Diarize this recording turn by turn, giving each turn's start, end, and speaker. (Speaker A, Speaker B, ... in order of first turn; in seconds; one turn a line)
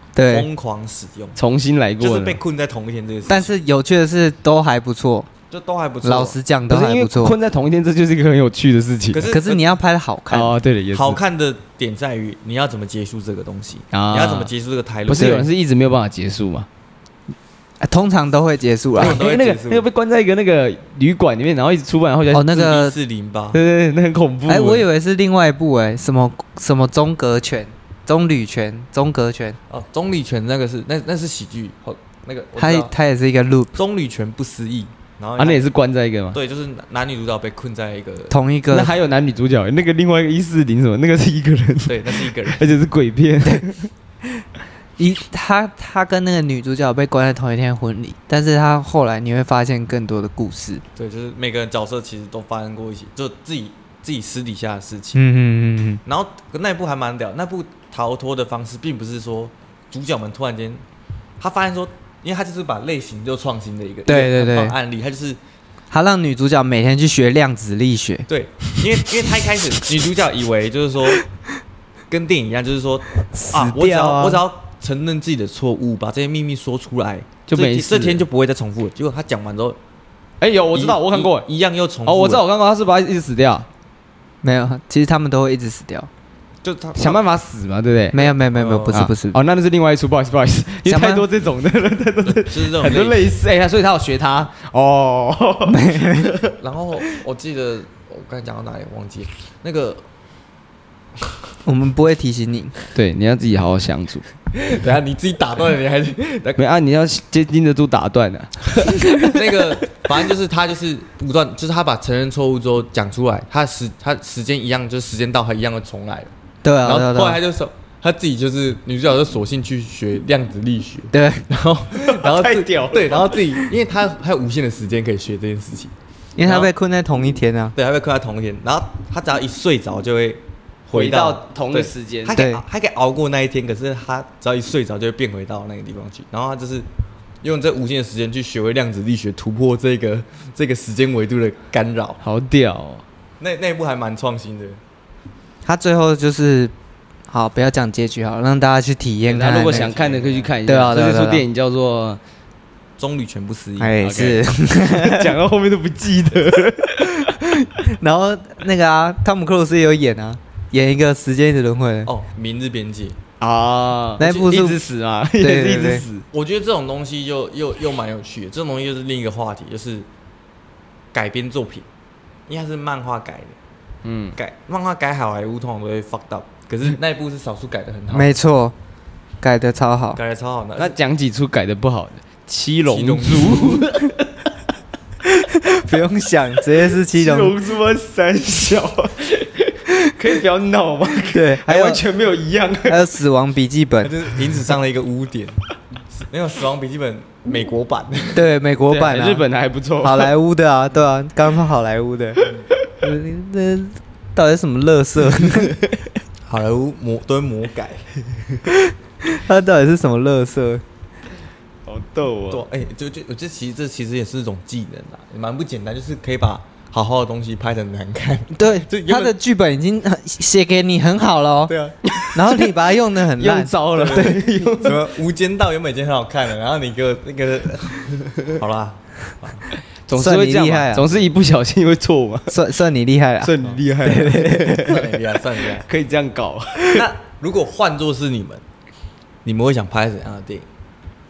Speaker A: 0.1-0.5
Speaker B: 0.2-1.4
Speaker C: 1.4-2.4
Speaker B: 2.0-3.5
Speaker A: 3.3-5.3
Speaker B: 5.5-6.4
Speaker A: 6.0-7.4
Speaker C: 6.7-9.3
Speaker B: 9.1-9.7
Speaker A: 9.3-10.6
Speaker C: 10.3-11.2
Speaker B: 10.9-15.5
Speaker C: 13.9-14.5
Speaker C: 15.1-16.7
Speaker A: 15.2-15.4
Speaker A: 17.8-19.2
Speaker B: 19.0-19.9
Speaker C: 19.0-22.6
Speaker A: 22.3-23.0
Speaker B: 22.5-23.6
Speaker C: 23.5-24.9
Speaker A: 24.5-29.6
Speaker B: 29.7-32.9
Speaker A: 32.6-33.8
Speaker B: 33.7-35.7
Speaker C: 35.4-36.4
Speaker B: 36.3-38.4
Speaker A: 38.3-38.9
Speaker C: 38.7-43.9
Speaker B: 41.9-42.6
Speaker A: 45.0-50.8
Speaker B: 51.0-55.2
Speaker A: 55.1-56.0
Speaker B: 56.0-60.8
Speaker B: 61.4-65.4
Speaker A: 64.1-64.8
Speaker A: 65.9-68.3
Speaker B: 68.3-71.2
Speaker B: 72.1-79.8
Speaker A: 73.3-74.4
Speaker C: 77.5-78.2
Speaker C: 80.4-81.5
Speaker B: 80.7-82.4
Speaker C: 82.0-83.7
Speaker A: 84.4-86.1
Speaker B: 86.6-87.2
Speaker C: 87.0-88.3
Speaker A: 88.1-89.4
Speaker B: 88.5-89.0
Speaker C: 88.9-96.5
Speaker A: 90.9-91.3
Speaker B: 92.2-93.3
Speaker A: 95.7-96.3
Speaker B: 96.6-100.0
Speaker A: 101.7-102.8
Speaker C: 102.9-104.3
Speaker B: 104.5-106.6
Speaker C: 106.6-109.4
Speaker B: 109.2-116.3
Speaker A: 116.6-117.4
Speaker B: 116.8-125.9
Speaker A: 121.1-121.5
Speaker C: 122.0-123.7
Speaker A: 126.4-127.7
Speaker B: 126.4-126.7
Speaker B: 127.8-136.9
Speaker C: 130.9-132.4
Speaker A: 132.3-132.6
Speaker B: 137.4-142.2
Speaker C: 142.2-143.1
Speaker B: 143.4-144.8
Speaker A: 145.7-146.7
Speaker A: 147.3-149.9
Speaker C: 149.3-152.2
Speaker B: 149.7-150.5
Speaker A: 150.7-151.4
Speaker B: 153.0-154.3
Speaker A: 153.8-155.3
Speaker C: 154.0-157.4
Speaker A: 157.2-162.1
Speaker B: 162.1-163.2
Speaker C: 163.4-166.3
Speaker A: 164.2-164.8
Speaker A: 165.4-166.1
Speaker B: 166.3-170.1
Speaker B: 171.1-171.9
Speaker B: 172.5-173.6
Speaker C: 174.0-174.4
Speaker B: 174.4-178.3
Speaker A: 178.1-178.8
Speaker A: 179.4-180.2
Speaker B: 180.2-181.0
Speaker C: 180.8-184.3
Speaker B: 182.9-183.9
Speaker A: 185.3-187.6
Speaker C: 187.0-193.2
Speaker A: 191.3-192.1
Speaker A: 192.9-194.2
Speaker B: 194.0-198.4
Speaker A: 198.3-199.5
Speaker C: 198.9-200.3
Speaker A: 200.0-202.5
Speaker A: 203.0-205.8
Speaker B: 206.4-208.1
Speaker A: 208.7-210.8
Speaker C: 211.9-212.7
Speaker B: 212.5-219.3
Speaker A: 218.5-221.8
Speaker B: 221.7-222.1
Speaker C: 222.1-222.8
Speaker A: 222.3-224.5
Speaker C: 223.3-225.0
Speaker B: 223.9-229.7
Speaker C: 230.1-232.6
Speaker A: 230.1-231.1
Speaker A: 232.5-234.9
Speaker C: 233.4-235.1
Speaker B: 234.7-235.9
Speaker C: 235.8-237.1
Speaker B: 236.9-238.6
Speaker B: 239.4-240.7